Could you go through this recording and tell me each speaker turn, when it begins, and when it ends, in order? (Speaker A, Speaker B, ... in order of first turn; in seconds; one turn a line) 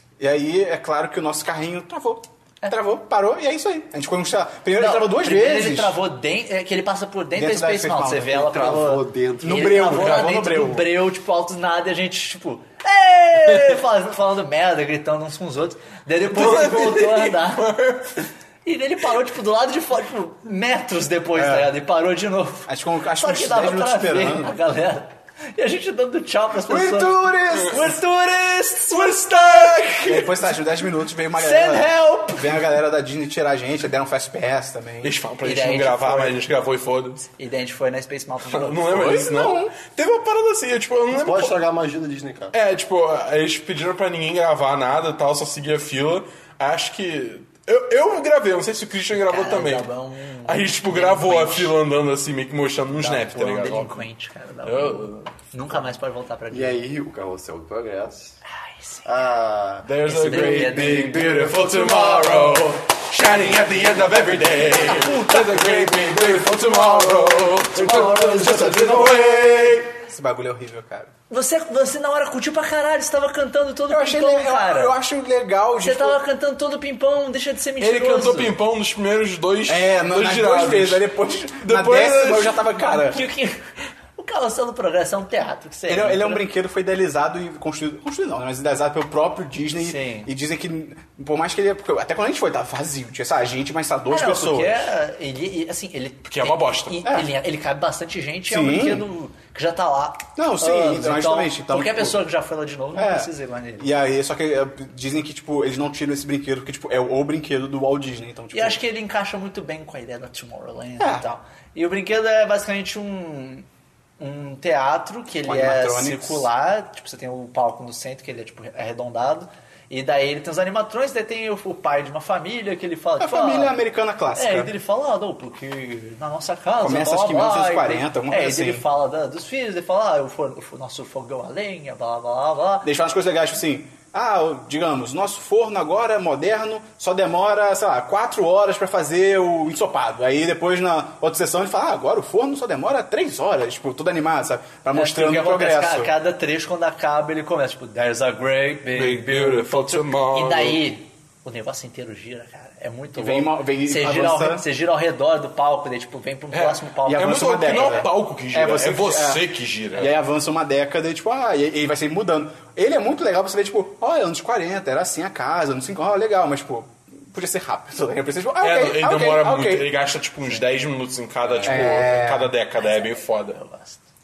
Speaker A: 0.2-6.0
Speaker B: 4.8-17.7
Speaker A: 7.3-8.5
Speaker C: 8.3-10.0
Speaker A: 9.4-10.9
Speaker D: 16.3-18.1
Speaker B: 18.6-30.5
Speaker A: 21.4-21.7
Speaker A: 22.7-24.6
Speaker A: 26.6-27.9
Speaker D: 29.0-29.9
Speaker A: 30.1-35.1
Speaker B: 31.3-32.7
Speaker D: 35.0-37.3
Speaker B: 35.4-36.4
Speaker B: 37.4-39.1
Speaker D: 38.5-41.6
Speaker A: 38.9-39.7
Speaker C: 41.1-42.5
Speaker D: 42.5-49.9
Speaker B: 49.2-51.7
Speaker D: 50.5-54.0
Speaker B: 53.0-56.8
Speaker D: 54.6-55.3
Speaker C: 56.5-58.4
Speaker B: 58.5-59.1
Speaker C: 59.0-61.2
Speaker D: 59.9-69.9
Speaker B: 60.0-62.7
Speaker B: 64.8-65.6
Speaker C: 65.3-69.8
Speaker B: 67.8-68.9
Speaker A: 70.0-71.1
Speaker B: 71.3-75.0
Speaker A: 73.9-76.2
Speaker B: 75.8-78.6
Speaker D: 77.8-81.1
Speaker A: 79.7-83.2
Speaker D: 81.6-82.6
Speaker B: 82.8-86.5
Speaker A: 85.9-94.9
Speaker B: 89.8-90.3
Speaker B: 94.1-103.9
Speaker D: 96.2-97.0
Speaker A: 98.5-99.0
Speaker A: 100.4-102.2
Speaker A: 103.0-108.8
Speaker B: 108.5-113.7
Speaker A: 111.0-111.2
Speaker B: 114.2-123.8
Speaker A: 115.5-116.5
Speaker A: 123.2-124.7
Speaker B: 124.3-132.9
Speaker A: 126.8-128.8
Speaker A: 132.8-146.1
Speaker B: 144.9-158.1
Speaker D: 148.9-150.8
Speaker A: 153.2-154.7
Speaker D: 156.5-160.2
Speaker A: 157.1-159.4
Speaker A: 159.9-169.9
Speaker D: 168.6-173.6
Speaker C: 171.4-171.9
Speaker A: 171.6-172.5
Speaker B: 172.7-174.0